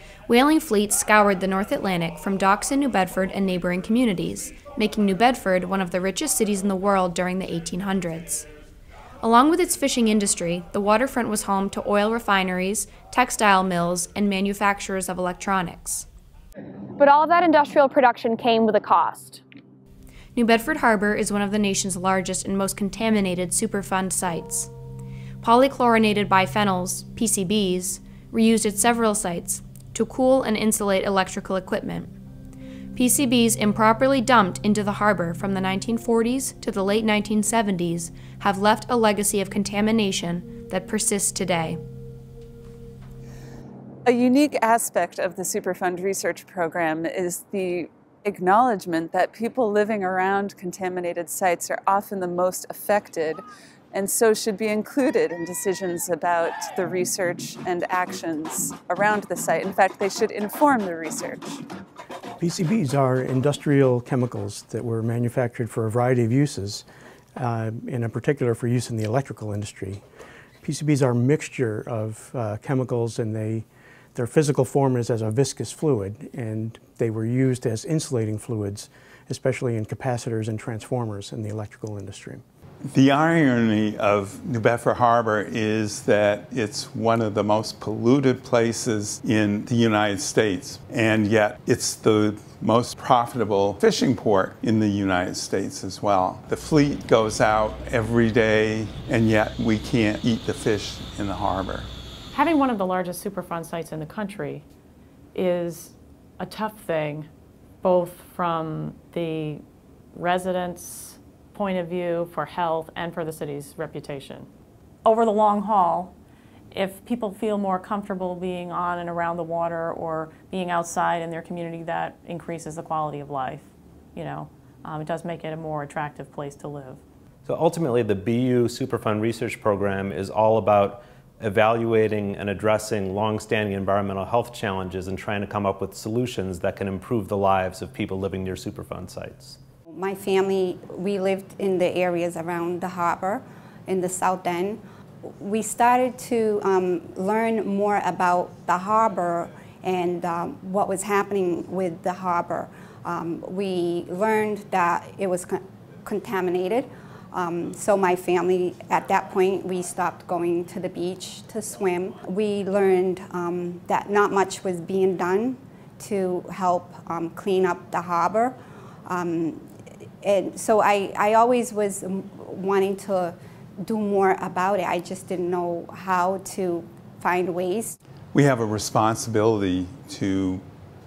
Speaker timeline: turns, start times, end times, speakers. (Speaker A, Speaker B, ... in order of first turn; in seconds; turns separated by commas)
Speaker A: 0.3-8.5, Speaker A: 9.2-16.1, Speaker B: 17.0-19.4, Speaker A: 20.3-24.7, Speaker A: 25.4-32.1, Speaker A: 32.9-41.8, Speaker C: 44.0-61.6, Speaker D: 62.4-66.8, Speaker D: 67.3-70.0, Speaker D: 70.6-82.4, Speaker E: 82.9-101.9, Speaker F: 102.3-104.6, Speaker F: 105.3-107.3, Speaker F: 107.8-109.6, Speaker F: 110.1-114.5, Speaker F: 115.0-116.1, Speaker F: 116.7-127.0, Speaker G: 127.5-139.6, Speaker H: 139.9-169.6, Speaker H: 170.2-177.9, Speaker E: 178.3-180.6